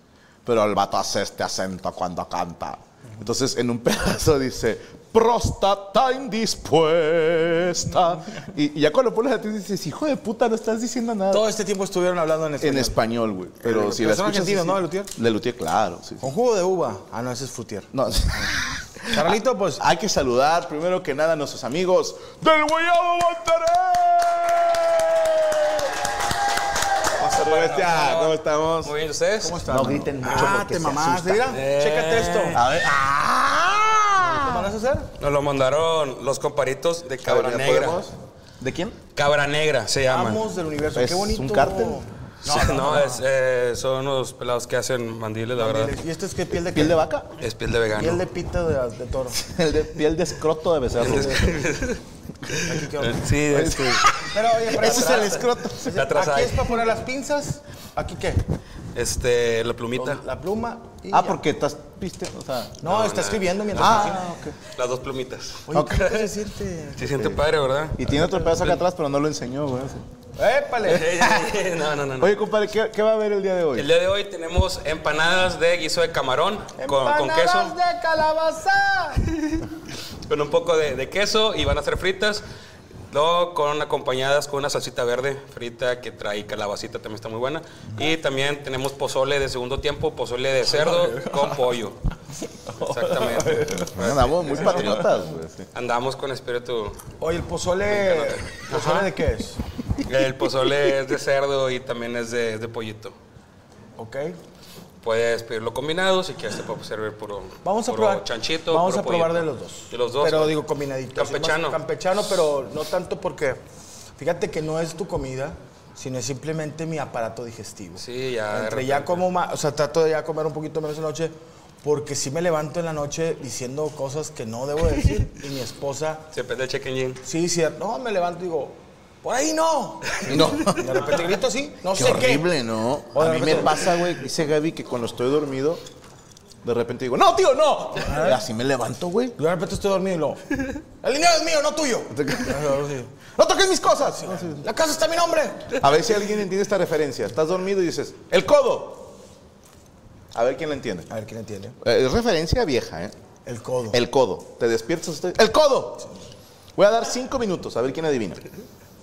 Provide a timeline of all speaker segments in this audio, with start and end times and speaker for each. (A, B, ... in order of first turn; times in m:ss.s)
0:00.4-0:11.5 A
0:11.3-0:13.0 B
0:12.6-0:16.2 A
0:13.6-0:15.1 B
0:16.2-0:17.9 B
0:17.9-0:25.9 A
0:19.1-0:19.8 B
0:27.2-0:31.6 A
0:27.2-0:29.7 C
0:29.4-0:32.6 B
0:31.5-0:32.7 C
0:32.5-0:34.6 A
0:34.2-0:35.1 B
0:35.2-0:38.1 C
0:37.2-0:39.0 A
0:39.2-0:40.4 C
0:40.1-0:43.2 B
0:40.9-0:42.0 A
0:42.4-0:46.0 C
0:45.6-0:47.0 B
0:46.6-0:47.3 A
0:47.4-0:48.2 C
0:47.9-0:49.5 B
0:49.4-0:51.5 A
0:51.0-0:52.0 C
0:51.0-0:51.6 B
0:52.6-0:54.2 C
0:52.6-0:53.2 B
0:53.5-0:56.1 A
0:54.2-0:58.4 B
0:54.8-0:56.8 C
0:58.9-1:00.2 C
1:00.0-1:01.4 B
1:01.1-1:02.8 A
1:02.8-1:04.3 B
1:02.8-1:04.1 C
1:03.8-1:04.6 A
1:04.6-1:06.3 C
1:05.7-1:07.3 B
1:05.7-1:06.1 A
1:07.0-1:08.8 C
1:08.0-1:10.1 A
1:10.4-1:11.1 B
1:10.8-1:12.4 C
1:11.1-1:11.6 A
1:12.2-1:13.9 A
1:13.8-1:17.8 C
1:16.8-1:19.2 B
1:19.4-1:19.6 C
1:20.3-1:22.4 C
1:23.1-1:32.0 C
1:30.7-1:31.6 B
1:32.7-1:33.9 B
1:32.8-1:35.1 C
1:34.0-1:35.7 A
1:34.6-1:35.0 B
1:35.8-1:37.0 C
1:37.2-1:39.6 B
1:37.9-1:39.1 C
1:40.0-1:43.2 C
1:44.0-1:44.4 B
1:45.0-1:50.6 C
1:47.6-1:53.6 B
1:51.2-1:51.8 C
1:54.2-2:06.3 B
1:58.0-1:59.3 C
2:05.0-2:05.3 C
2:06.3-2:07.2 C
2:07.2-2:12.5 B
2:10.3-2:11.1 A
2:11.9-2:15.8 A
2:13.1-2:13.9 B
2:16.6-2:19.4 A
2:18.0-2:18.4 B
2:19.4-2:23.1 B
2:22.1-2:22.8 A
2:23.4-2:24.7 A
2:24.0-2:25.8 B
2:25.7-2:29.2 A
2:30.3-2:31.1 A
2:31.1-2:31.8 B
2:31.8-2:33.2 A
2:33.4-2:34.0 B
2:33.9-2:36.1 A
2:36.8-2:38.4 A